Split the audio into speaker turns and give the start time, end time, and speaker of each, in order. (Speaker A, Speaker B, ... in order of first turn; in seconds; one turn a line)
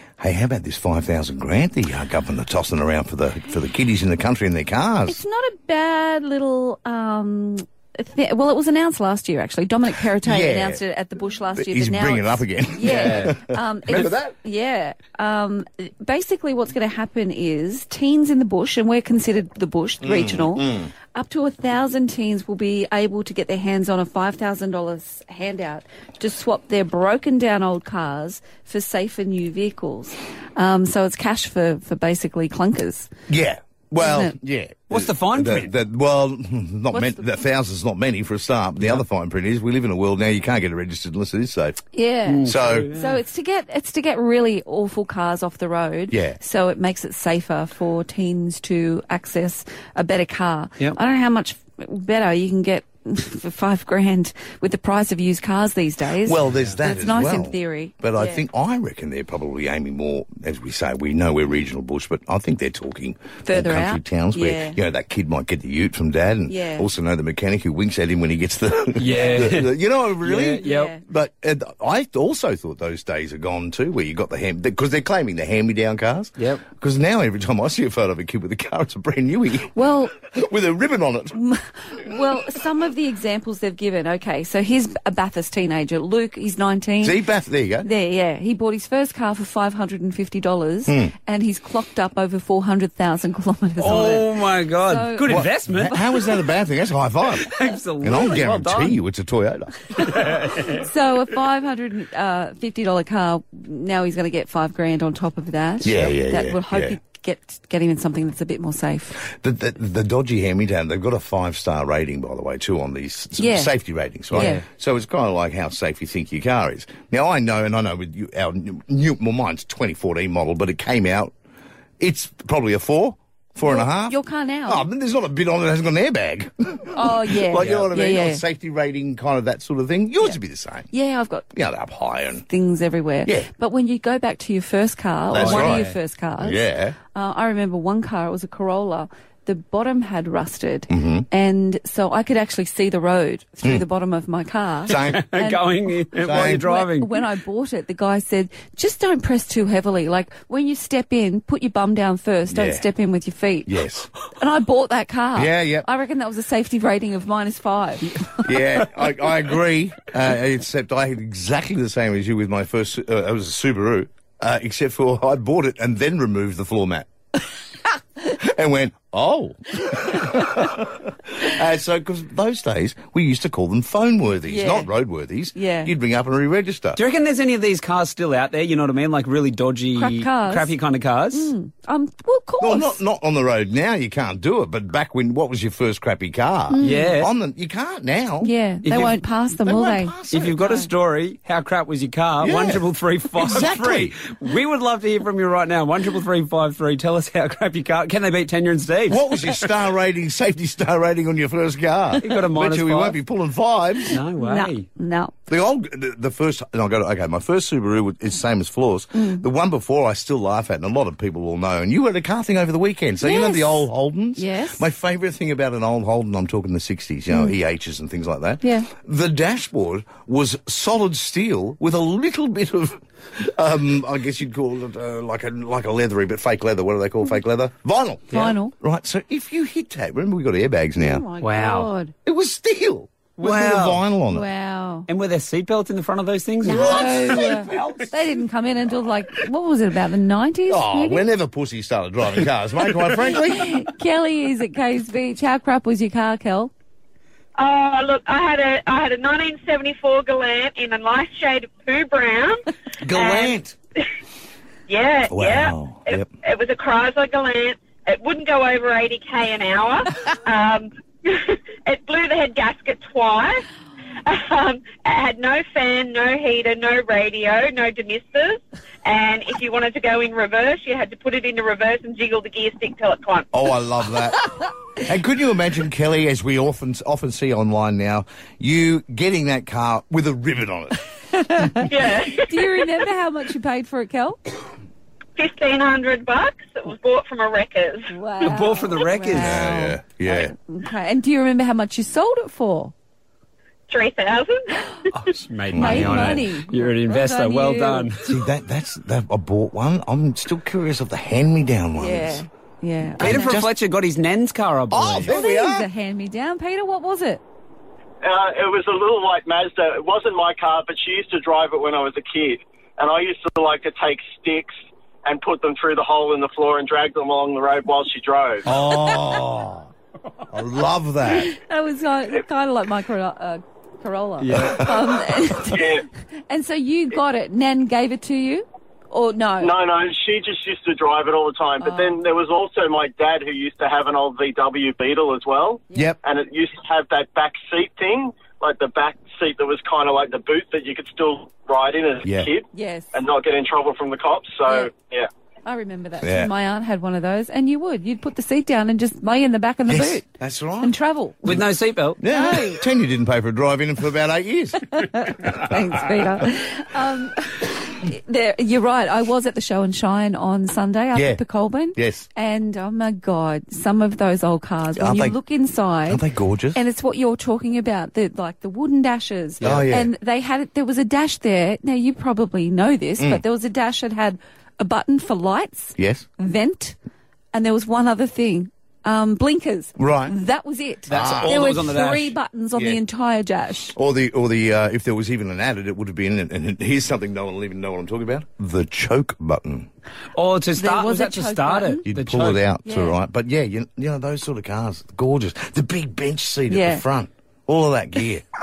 Speaker A: 0.2-5.2
Speaker B: 5.0-33.1
Speaker A: 10.2-10.8
Speaker A: 11.5-14.3
Speaker C: 12.8-13.3
Speaker A: 20.0-20.9
Speaker A: 33.3-41.8
Speaker B: 34.0-34.3
Speaker C: 34.9-35.7
Speaker B: 36.9-37.2
Speaker B: 41.9-58.4
Speaker C: 42.3-43.1
Speaker A: 42.4-42.9
Speaker A: 46.1-46.4
Speaker A: 56.2-81.4
Speaker B: 63.4-64.8
Speaker B: 66.5-66.9
Speaker C: 69.0-70.9
Speaker B: 70.6-71.0
Speaker C: 76.4-76.6
Speaker B: 79.7-80.1
Speaker B: 81.3-87.2
Speaker A: 87.0-87.9
Speaker B: 87.8-95.4
Speaker A: 90.9-91.1
Speaker C: 93.8-96.2
Speaker A: 95.2-100.0
Speaker C: 97.5-99.0
Speaker C: 100.0-100.8
Speaker B: 100.7-109.2
Speaker A: 105.8-107.0
Speaker A: 109.2-121.3
Speaker B: 113.4-113.7
Speaker B: 114.3-114.6
Speaker C: 114.3-114.6
Speaker A: 122.0-130.9
Speaker B: 123.6-124.8
Speaker B: 126.9-128.4
Speaker B: 130.9-131.4
Speaker A: 131.5-132.4
Speaker B: 132.5-136.6
Speaker A: 135.3-136.9
Speaker C: 135.3-135.9
Speaker B: 137.1-153.7
Speaker A: 140.9-141.2
Speaker A: 144.9-145.3
Speaker C: 144.9-147.2
Speaker A: 146.2-146.7
Speaker A: 152.5-152.8
Speaker A: 153.7-154.1
Speaker B: 154.3-158.5
Speaker A: 155.3-155.9
Speaker A: 158.4-167.1
Speaker A: 168.3-177.0
Speaker B: 174.5-174.9
Speaker B: 175.5-175.9
Speaker C: 176.9-181.5
Speaker B: 179.9-180.7
Speaker B: 181.3-183.0
Speaker A: 182.6-190.6
Speaker B: 186.7-187.2
Speaker C: 186.8-187.3
Speaker B: 188.4-190.9
Speaker C: 188.8-189.2
Speaker C: 190.3-199.7
Speaker A: 192.4-192.8
Speaker A: 193.3-194.1
Speaker A: 199.1-204.2
Speaker C: 202.2-203.2
Speaker C: 204.1-204.8
Speaker B: 204.4-205.3
Speaker A: 205.5-231.2
Speaker B: 209.1-209.4
Speaker B: 213.2-214.8
Speaker B: 218.6-218.9
Speaker B: 228.3-228.7
Speaker B: 231.0-232.1
Speaker C: 231.4-231.9
Speaker A: 232.2-234.4
Speaker C: 233.4-234.0
Speaker B: 234.3-235.1
Speaker C: 235.1-237.1
Speaker B: 236.6-241.2
Speaker A: 236.6-238.4
Speaker A: 240.7-243.8
Speaker B: 243.3-246.7
Speaker D: 247.6-254.0
Speaker A: 253.0-253.7
Speaker D: 254.9-263.6
Speaker A: 255.3-256.3
Speaker D: 264.2-273.5
Speaker A: 273.5-274.4
Speaker A: 275.0-281.0
Speaker B: 281.3-281.9
Speaker D: 281.8-282.9
Speaker B: 282.4-284.4
Speaker D: 285.4-288.1
Speaker B: 288.1-292.9
Speaker C: 288.4-289.6
Speaker A: 289.3-290.5
Speaker D: 293.9-294.8
Speaker C: 295.1-298.3
Speaker A: 295.7-296.4
Speaker B: 295.8-298.1
Speaker A: 298.2-302.4
Speaker B: 301.9-303.6
Speaker A: 303.2-303.7
Speaker C: 303.2-305.4
Speaker A: 304.9-305.9
Speaker B: 305.2-307.4
Speaker E: 308.2-314.7
Speaker E: 315.2-318.7
Speaker A: 318.6-319.9
Speaker B: 318.8-319.2
Speaker A: 320.5-321.5
Speaker B: 321.2-329.8
Speaker C: 324.4-325.0
Speaker A: 324.5-325.1
Speaker E: 325.6-326.0
Speaker E: 329.6-345.3
Speaker B: 331.8-332.2
Speaker A: 335.9-336.2
Speaker A: 342.2-342.5
Speaker B: 342.7-343.1
Speaker B: 345.6-350.2
Speaker A: 346.2-346.5
Speaker A: 349.9-350.9
Speaker B: 350.8-351.6
Speaker C: 351.4-352.2
Speaker A: 352.2-355.5
Speaker B: 352.3-352.8
Speaker B: 354.8-366.2
Speaker A: 361.1-361.4
Speaker A: 361.9-362.3
Speaker A: 364.9-365.4
Speaker A: 366.1-366.8
Speaker B: 366.7-376.9
Speaker A: 369.6-370.1
Speaker A: 376.0-376.3
Speaker B: 377.5-383.9
Speaker A: 380.0-380.3
Speaker A: 381.1-381.6
Speaker C: 381.1-382.3
Speaker A: 382.7-383.0
Speaker A: 383.9-389.9
Speaker C: 390.4-392.6
Speaker B: 390.8-392.0
Speaker A: 392.1-398.4
Speaker B: 392.8-393.2
Speaker B: 396.7-397.0